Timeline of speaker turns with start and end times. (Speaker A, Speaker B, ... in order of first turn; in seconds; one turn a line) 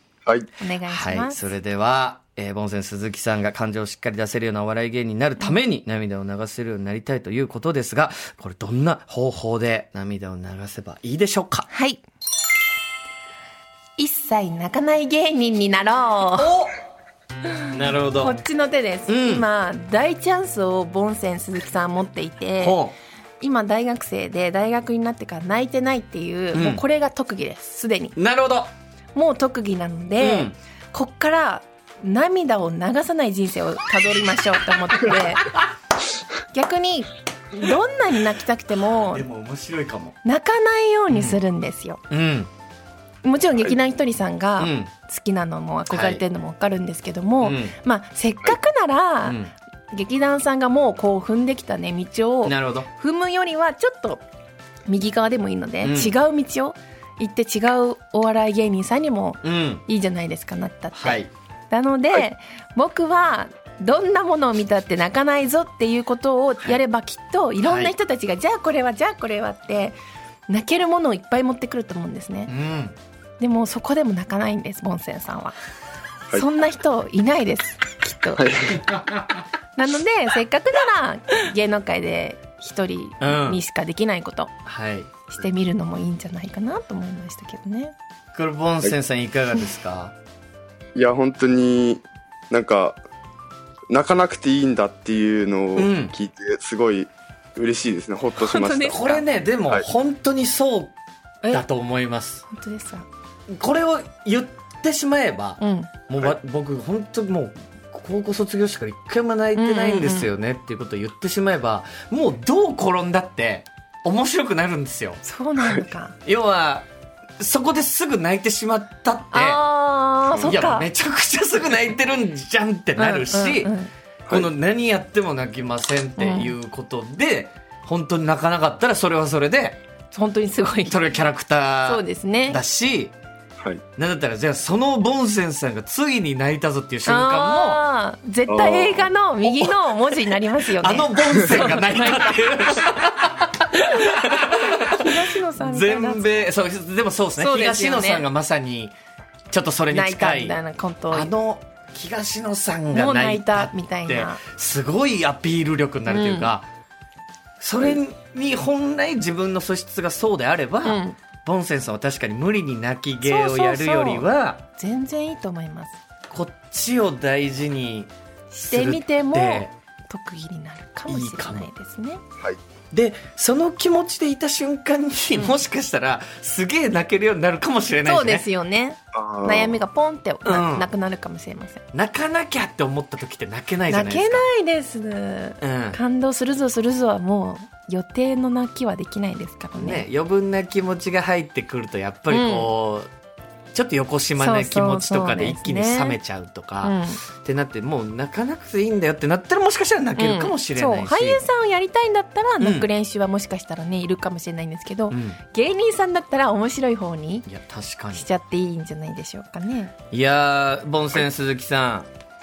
Speaker A: 0.6-1.5
Speaker B: 0.8-11.7
Speaker A: 11.7-12.0
Speaker A: 14.0-16.5
Speaker B: 16.4-16.7
Speaker B: 17.7-18.4
Speaker A: 18.1-22.8
Speaker B: 19.1-19.4
Speaker B: 22.6-22.9
Speaker A: 23.4-28.1
Speaker B: 26.5-26.8
Speaker B: 28.1-28.7
Speaker A: 29.1-35.6
Speaker B: 30.2-30.5
Speaker A: 36.5-39.2
Speaker B: 38.7-40.1
Speaker A: 40.2-42.0
Speaker B: 41.1-41.4
Speaker B: 42.1-42.5
Speaker A: 43.2-54.2
Speaker B: 44.6-44.9
Speaker B: 45.9-46.2
Speaker B: 47.4-47.7
Speaker B: 49.2-49.5
Speaker B: 52.4-52.9
Speaker A: 54.9-70.0
Speaker B: 55.8-56.1
Speaker B: 59.4-59.8
Speaker B: 61.0-61.3
Speaker B: 67.6-67.9
Speaker A: 70.5-72.5
Speaker B: 72.5-72.9
Speaker A: 73.4-75.5
Speaker A: 76.3-78.6
Speaker C: 78.4-79.0
Speaker A: 79.8-84.5
Speaker B: 83.2-83.6
Speaker B: 84.7-85.1
Speaker A: 85.3-87.9
Speaker B: 88.3-90.1
Speaker C: 90.9-93.0
Speaker C: 93.9-99.8
Speaker B: 95.8-96.1
Speaker A: 98.4-99.2
Speaker B: 98.9-100.9
Speaker B: 101.5-102.4
Speaker A: 102.5-103.1
Speaker B: 103.5-115.2
Speaker A: 105.6-105.9
Speaker A: 109.5-110.3
Speaker A: 115.2-116.2
Speaker C: 115.6-115.8
Speaker B: 116.2-116.9
Speaker B: 117.4-119.6
Speaker A: 119.3-120.9
Speaker C: 120.3-120.6
Speaker B: 120.4-123.7
Speaker A: 123.0-123.9
Speaker B: 124.3-129.8
Speaker A: 126.2-126.5
Speaker A: 130.1-131.1
Speaker B: 130.8-133.1
Speaker A: 131.8-132.6
Speaker B: 134.0-137.8
Speaker A: 137.1-142.9
Speaker C: 138.5-139.1
Speaker B: 140.6-148.9
Speaker A: 144.0-146.5
Speaker A: 147.3-148.3
Speaker B: 149.5-150.6
Speaker A: 149.9-151.3
Speaker B: 151.1-156.7
Speaker A: 152.9-154.4
Speaker A: 156.1-156.5
Speaker B: 157.6-164.6
Speaker A: 160.8-161.2
Speaker A: 163.2-166.0
Speaker B: 166.3-169.7
Speaker A: 168.6-172.2
Speaker B: 171.1-171.7
Speaker B: 172.9-178.4
Speaker A: 178.0-181.8
Speaker C: 179.1-179.8
Speaker B: 180.4-180.8
Speaker B: 181.9-184.4
Speaker A: 183.9-190.0
Speaker B: 185.6-186.0
Speaker B: 189.8-193.1
Speaker A: 192.3-192.7
Speaker B: 193.7-201.4
Speaker A: 194.3-196.2
Speaker A: 196.8-197.2
Speaker A: 200.2-207.4
Speaker B: 202.6-202.8
Speaker B: 205.1-205.4
Speaker B: 207.4-208.3
Speaker A: 208.1-209.9
Speaker B: 210.1-212.1